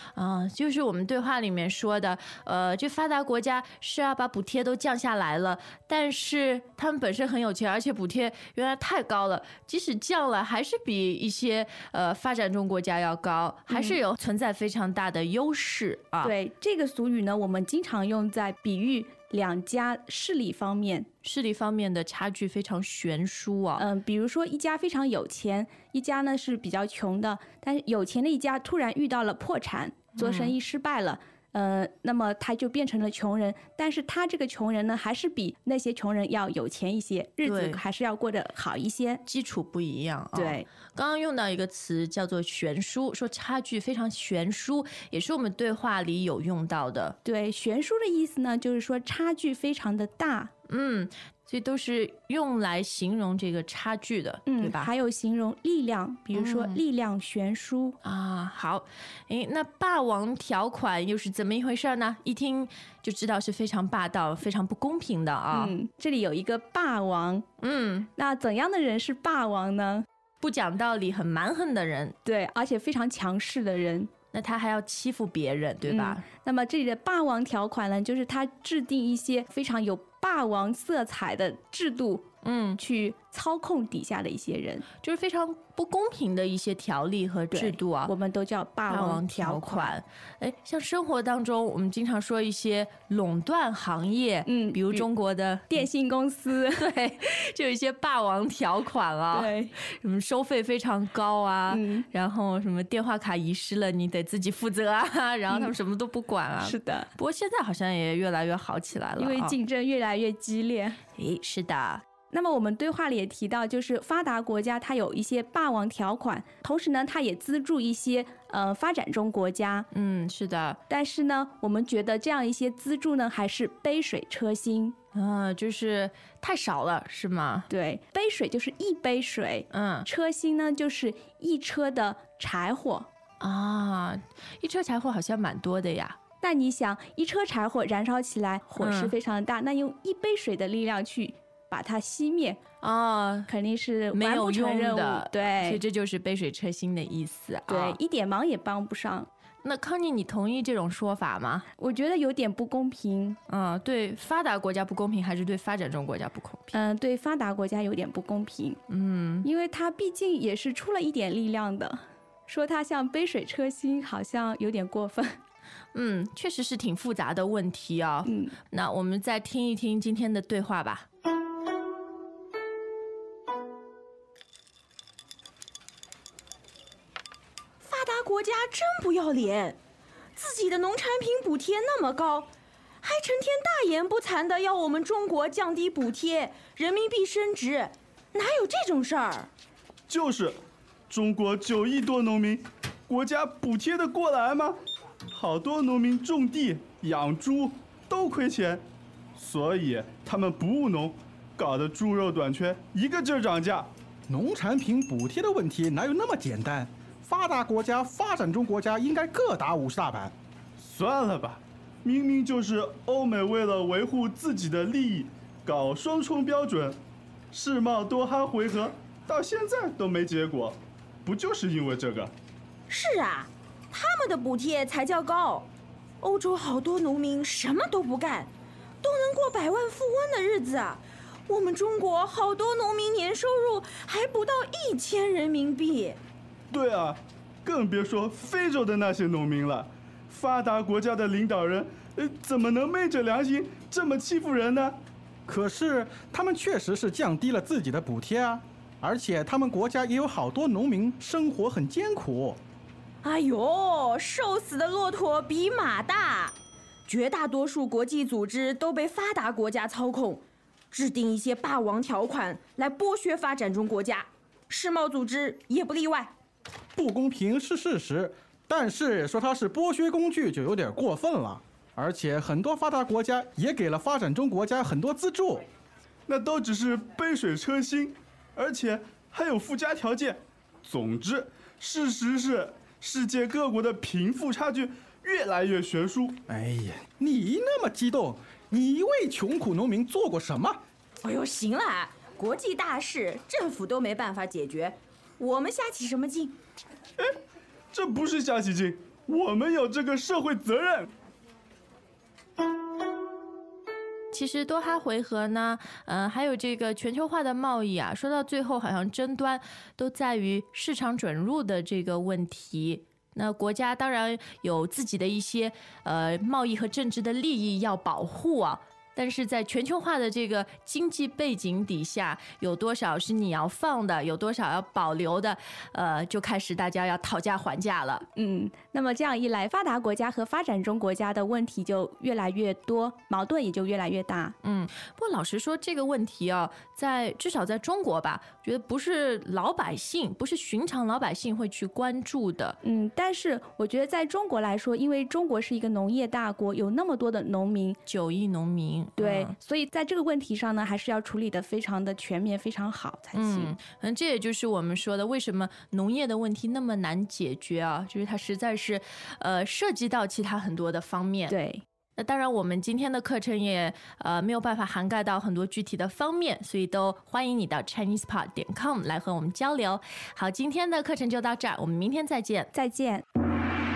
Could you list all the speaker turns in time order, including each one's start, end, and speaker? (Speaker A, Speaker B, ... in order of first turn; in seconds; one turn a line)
Speaker A: 0.1-16.3
Speaker B: 13.7-14.0
Speaker B: 16.2-21.1
Speaker A: 21.2-23.8
Speaker B: 23.8-39.2
Speaker A: 30.2-30.6
Speaker A: 37.4-37.8
Speaker A: 39.2-47.2
Speaker B: 40.3-40.7
Speaker B: 47.2-50.5
Speaker A: 50.7-54.9
Speaker B: 54.5-58.0
Speaker A: 56.3-56.8
Speaker A: 58.0-65.8
Speaker B: 65.5-67.5
Speaker A: 67.6-68.1
Speaker B: 68.2-70.0
Speaker A: 70.4-72.2
Speaker B: 72.2-74.1
Speaker A: 74.3-76.2
Speaker B: 75.9-82.3
Speaker A: 82.4-82.8
Speaker B: 82.8-84.8
Speaker A: 85.0-88.1
Speaker B: 87.5-90.0
Speaker A: 88.9-95.9
Speaker B: 94.5-95.1
Speaker B: 95.7-96.8
Speaker A: 96.8-109.5
Speaker B: 99.3-99.7
Speaker B: 101.7-102.1
Speaker B: 106.6-107.1
Speaker B: 109.2-111.0
Speaker A: 111.2-112.0
Speaker B: 112.3-119.9
Speaker A: 119.9-120.8
Speaker B: 120.9-125.0
Speaker A: 125.1-127.7
Speaker B: 127.7-133.1
Speaker A: 129.7-130.1
Speaker A: 133.4-136.2
Speaker B: 136.4-142.6
Speaker A: 138.8-139.1
Speaker A: 142.8-143.5
Speaker B: 143.5-145.8
Speaker A: 144.1-148.0
Speaker B: 147.7-149.3
Speaker A: 149.6-151.7
Speaker B: 151.8-153.4
Speaker A: 153.5-156.8
Speaker B: 156.7-158.8
Speaker A: 158.9-159.5
Speaker B: 159.4-165.4
Speaker A: 165.9-171.1
Speaker B: 168.3-168.6
Speaker C: 177.8-179.8
Speaker C: 180.3-182.5
Speaker C: 183.0-189.5
Speaker D: 190.1-190.6
Speaker D: 191.1-194.8
Speaker D: 195.3-198.8
Speaker D: 199.4-203.9
Speaker E: 204.3-210.3
Speaker D: 210.8-217.0
Speaker D: 217.5-222.3
Speaker C: 222.9-225.7
Speaker C: 226.2-228.5
Speaker C: 229.0-236.2
Speaker D: 236.7-245.0
Speaker E: 245.5-252.6
Speaker C: 253.2-266.3
Speaker E: 267.0-275.6
Speaker D: 276.3-286.4
Speaker E: 286.5-290.8
Speaker C: 291.2-296.6
Speaker D: 297.9-301.1
Speaker A: 304.3-328.2
Speaker B: 328.4-334.6
Speaker A: 334.6-342.8
Speaker B: 342.8-348.0
Speaker A: 348.1-349.5
Speaker B: 349.2-353.8
Speaker A: 353.3-361.6
Speaker B: 361.5-361.8
Speaker A: 362.2-372.7
Speaker B: 372.7-373.2